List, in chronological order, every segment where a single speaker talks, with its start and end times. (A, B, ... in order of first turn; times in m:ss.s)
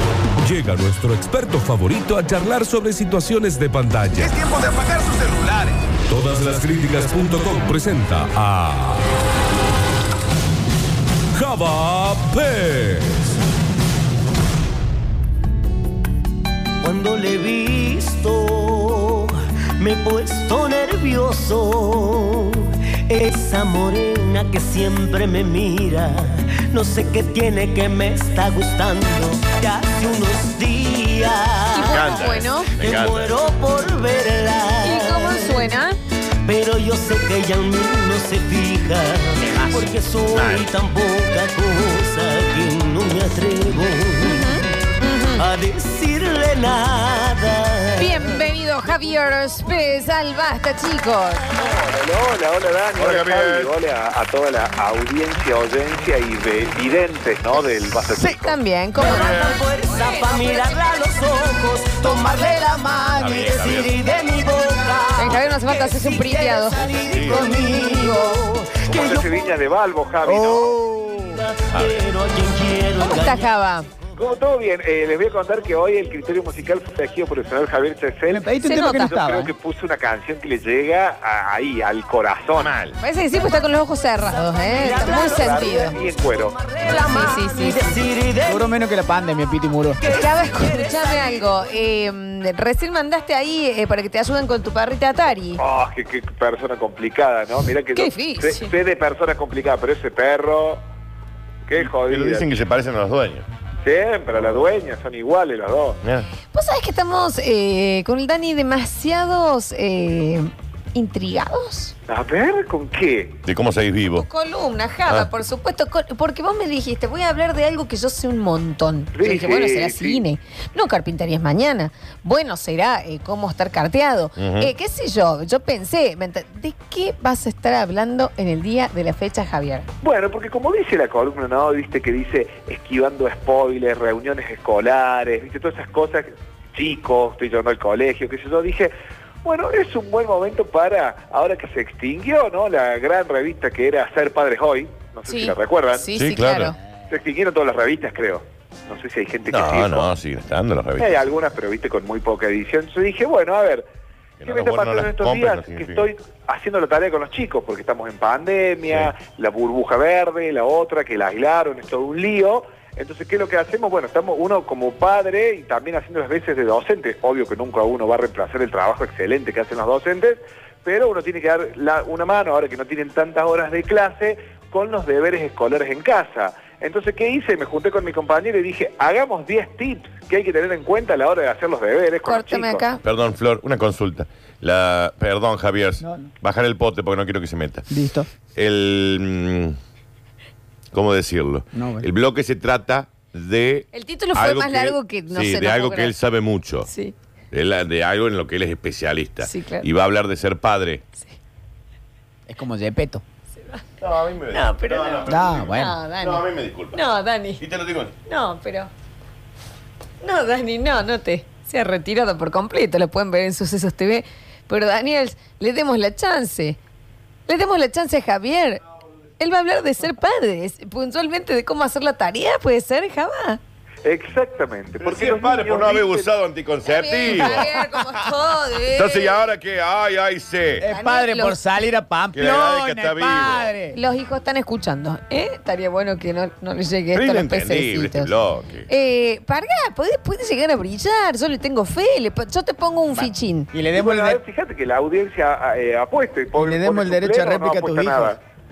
0:00.4-0:04.5 A
0:06.1-0:09.1 A
0:11.3-0:13.4 A
0:16.8-0:32.0 B
0:31.7-0:32.7 C
0:31.8-0:33.3 D
0:32.7-0:35.7 B
0:34.8-0:36.0 C
0:36.4-0:44.6 B
0:40.3-0:40.7 D
0:44.2-0:45.5 C
0:45.4-0:48.2 B
0:48.0-0:51.4 C
0:51.5-0:58.6 E
0:53.0-0:53.7 D
0:58.1-1:00.8 C
0:59.0-1:09.6 B
0:59.0-0:59.6 D
1:02.3-1:03.2 F
1:03.2-1:04.0 D
1:05.2-1:06.8 C
1:07.0-1:07.5 D
1:07.2-1:08.4 F
1:08.9-1:10.8 E
1:10.2-1:11.4 F
1:11.2-1:13.5 B
1:11.7-1:12.0 D
1:13.0-1:13.9 C
1:14.2-1:22.7 E
1:18.3-1:19.5 F
1:18.6-1:19.1 C
1:22.5-1:23.0 D
1:23.0-1:26.0 C
1:24.3-1:28.7 B
1:24.9-1:26.6 E
1:26.8-1:27.8 C
1:28.4-1:30.0 F
1:30.0-1:31.7 B
1:30.1-1:35.6 C
1:35.6-1:40.8 E
1:38.0-1:38.7 C
1:41.7-1:42.5 E
1:41.8-1:43.5 D
1:43.8-1:46.0 E
1:46.0-1:46.3 D
1:46.5-1:51.9 C
1:52.1-1:53.4 E
1:53.4-1:54.2 D
1:54.1-2:09.9 C
1:59.1-2:00.2 E
2:04.4-2:04.7 D
2:10.0-2:18.9 E
2:19.4-2:26.1 E
2:25.3-2:26.8 C
2:26.1-2:26.7 D
2:27.1-2:30.1 E
2:29.5-2:31.2 D
2:31.0-2:33.8 E
2:34.4-2:36.0 D
2:34.4-3:02.8 E
3:02.2-3:03.0 C
3:03.0-3:07.8 D
3:06.0-3:06.3 F
3:07.9-3:08.3 F
3:08.5-3:09.8 D
3:10.9-3:16.9 D
3:11.7-3:12.1 F
3:13.9-3:16.1 C
3:16.8-3:17.1 C
3:17.5-3:21.0 D
3:19.4-3:19.8 C
3:22.5-3:23.2 F
3:24.0-3:27.0 D
3:24.5-3:27.6 C
3:25.3-3:26.0 F
3:27.6-3:28.1 D
3:28.3-3:28.9 C
3:30.2-3:36.8 C
3:37.5-3:38.8 C
3:39.4-3:43.6 C
3:44.0-3:46.3 E
3:45.0-3:47.6 D
3:46.8-3:49.4 C
3:47.3-3:48.0 F
3:48.9-3:50.8 D
3:50.8-3:54.0 F
3:50.9-3:51.6 C
3:52.3-3:53.7 D
3:53.9-3:58.3 C
3:57.1-3:58.9 D
3:58.9-4:03.7 C
4:03.2-4:04.4 F
4:03.9-4:08.4 E
4:06.5-4:08.3 F